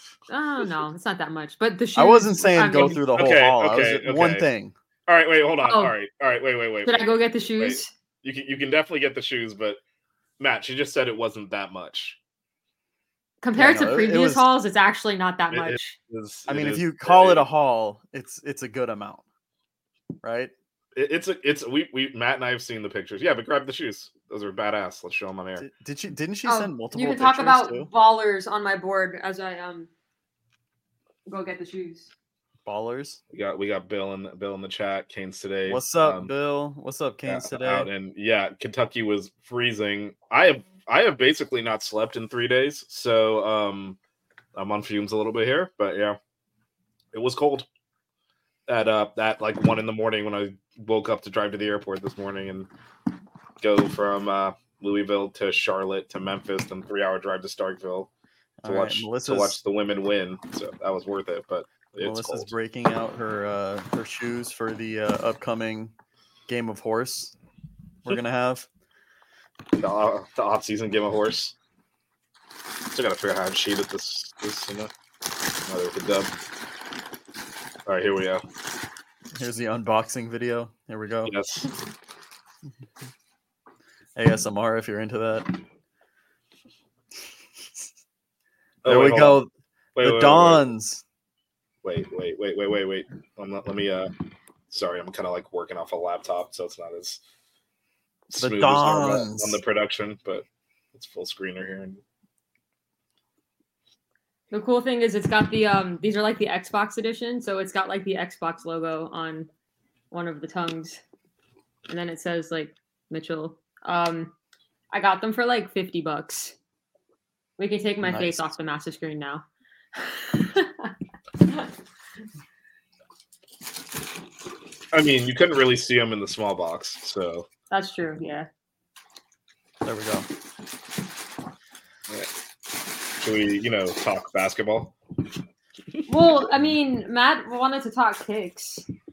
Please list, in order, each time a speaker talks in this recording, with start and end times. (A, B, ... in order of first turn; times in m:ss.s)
0:00.3-0:03.0 A
0:01.9-0:04.8 B
0:03.1-0:04.5 C
0:05.1-0:09.8 C
0:05.7-0:05.9 A
0:06.8-0:07.9 A
0:10.4-0:12.2 C
0:13.4-0:16.0 A
0:13.5-0:14.4 B
0:15.5-0:17.4 C
0:16.5-0:19.2 B
0:20.2-0:20.5 B
0:20.9-0:25.6 C
0:25.6-0:27.9 B
0:26.4-0:29.9 A
0:31.3-0:32.1 A
0:32.6-0:33.2 B
0:33.3-0:36.3 C
0:35.7-0:37.9 B
0:37.3-0:44.0 C
0:44.6-0:46.2 C
0:47.1-0:47.7 C
0:48.7-0:52.7 C
0:53.6-0:58.1 C
0:58.6-0:59.6 B
0:58.7-1:02.5 C
1:02.0-1:05.9 B
1:06.5-1:07.3 B
1:08.0-1:08.7 B
1:09.8-1:11.6 C
1:12.9-1:14.9 C
1:15.7-1:16.3 C
1:17.8-1:18.4 C
1:19.4-1:21.3 B
1:21.2-1:21.7 C
1:24.2-1:25.6 B
1:28.8-1:29.4 C
1:28.8-1:29.5 B
1:29.9-1:30.6 C
1:30.0-1:31.0 B
1:31.8-1:34.1 C
1:34.7-1:37.2 C
1:38.3-1:42.0 C
1:38.4-1:39.6 B
1:44.5-1:49.5 A
1:50.1-1:51.0 A
1:51.9-1:54.3 A
1:54.9-1:56.6 A
1:57.6-1:59.4 A
1:58.0-1:58.5 B
2:00.0-2:00.9 A
2:04.9-2:07.5 C
2:07.7-2:08.5 A
2:09.8-2:10.3 B
2:13.2-2:15.0 C
2:16.1-2:18.8 A